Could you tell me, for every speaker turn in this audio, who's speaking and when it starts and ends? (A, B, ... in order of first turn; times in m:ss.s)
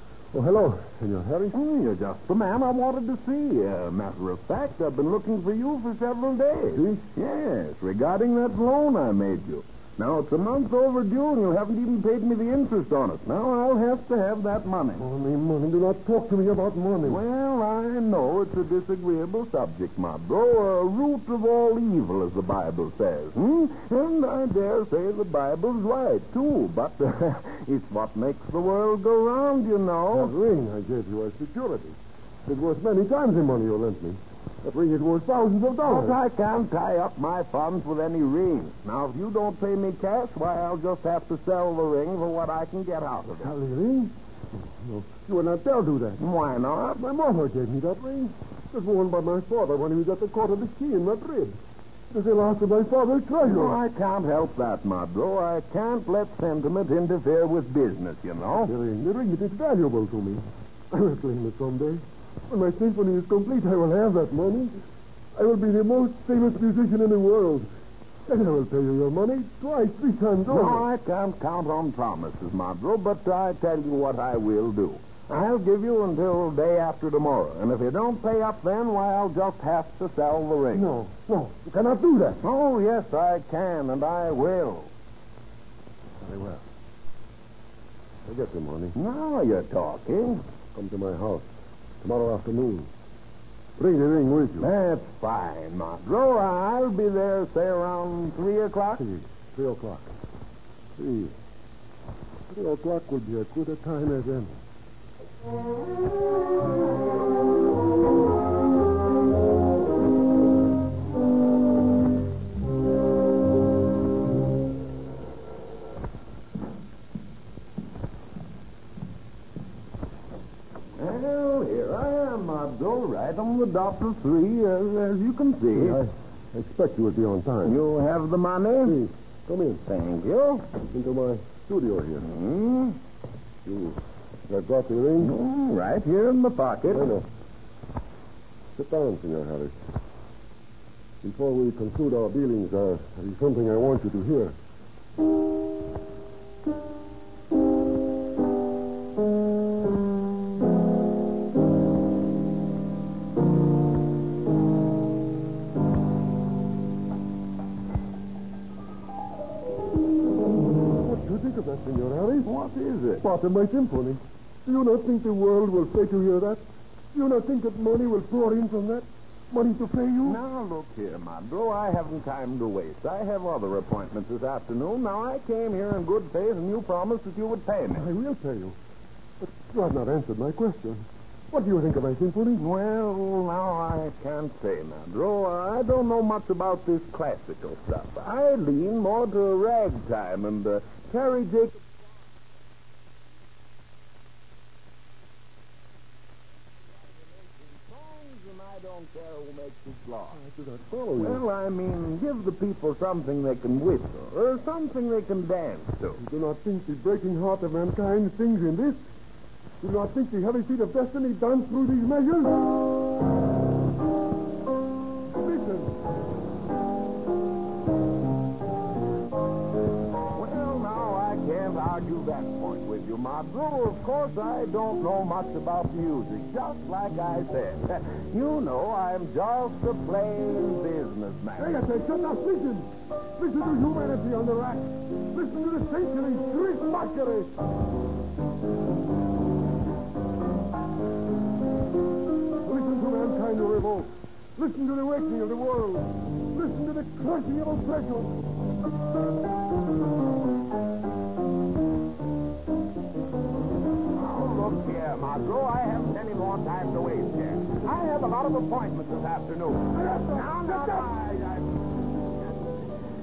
0:00.3-0:01.6 A
0:01.5-0:15.1 B
0:06.7-0:07.0 A
0:14.9-0:17.2 A
0:17.0-0:30.4 B
0:30.1-0:36.2 A
0:35.8-0:43.5 B
0:43.3-0:46.2 A
0:46.2-0:47.0 B
0:47.0-0:51.6 A
0:52.1-0:53.8 A
0:53.4-0:58.7 B
0:58.6-1:04.8 A
1:05.3-1:07.7 A
1:08.2-1:10.8 A
1:10.5-1:20.9 B
1:20.7-1:22.4 A
1:22.4-1:24.9 B
1:26.2-1:26.6 A
1:28.2-1:29.0 A
1:28.9-1:30.4 B
1:30.7-1:31.5 A
1:32.0-1:32.9 A
1:33.8-1:34.7 A
1:34.6-1:39.0 B
1:39.0-1:40.1 A
1:41.0-1:41.3 A
1:42.5-1:44.5 A
2:01.0-2:06.0 B
2:05.7-2:07.8 A
2:07.6-2:09.0 B
2:08.8-2:09.8 A
2:09.8-2:10.7 B
2:10.8-2:12.3 A
2:12.2-2:13.0 B
2:13.6-2:15.3 A
2:15.2-2:17.1 B
2:16.9-2:17.3 A
2:18.7-2:19.7 A
2:21.2-2:24.5 A
2:41.0-2:42.5 A
2:42.4-2:43.3 B
2:43.2-2:50.4 A
2:50.2-2:58.1 B
2:57.9-2:58.8 A
2:59.4-3:02.6 A
3:02.6-3:11.9 B
3:17.0-3:20.4 B
3:20.3-3:21.4 A
3:21.2-3:26.2 B
3:26.2-3:29.0 A
3:29.8-3:32.7 A
3:35.4-3:35.9 A
3:40.3-3:51.9 B
3:51.6-3:57.5 A
4:02.6-4:08.4 A
4:14.1-4:22.8 B
4:19.9-4:20.9 A